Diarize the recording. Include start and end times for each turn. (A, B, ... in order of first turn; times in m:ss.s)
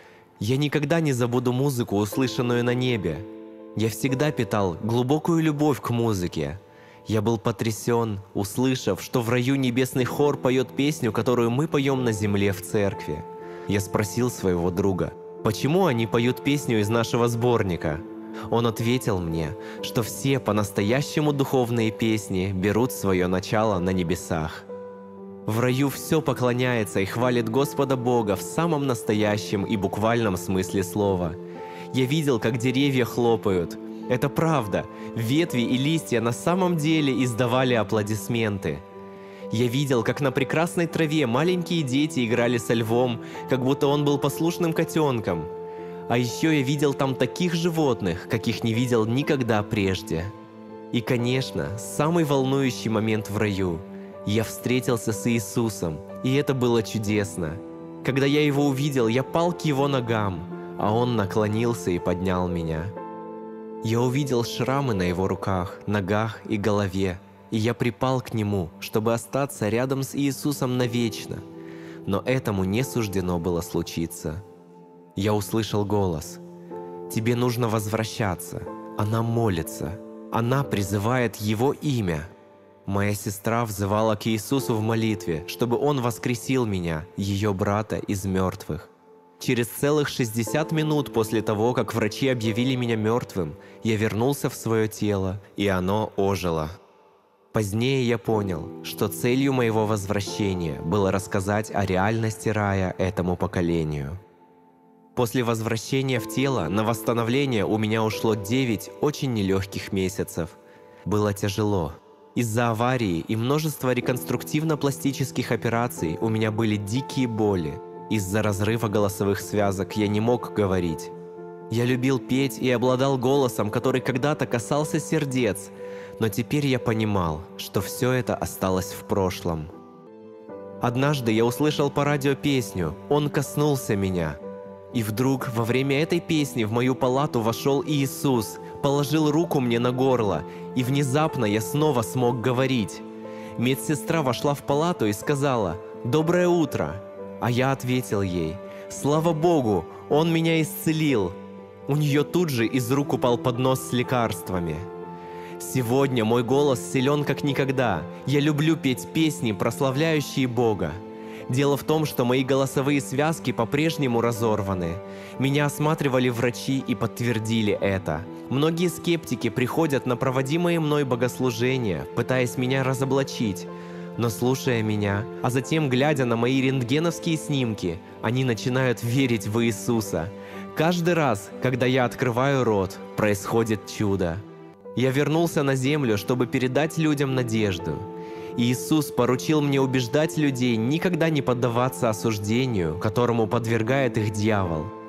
0:00.4-0:24.7 A
0:25.5-0:31.4 A
0:31.9-0:38.8 A
0:39.5-0:45.5 A
0:46.1-0:50.3 A
0:50.9-1:02.9 A
1:03.8-1:11.4 A
1:12.0-1:14.4 A
1:15.2-1:16.4 A
1:17.1-1:22.3 A
1:22.9-1:36.8 A
1:37.5-1:44.2 A
1:45.2-2:01.1 A
2:01.7-2:09.7 A
2:10.8-2:14.4 A
2:14.9-2:31.4 A
2:31.9-2:34.9 A
2:35.6-3:04.4 A
3:05.0-3:14.9 A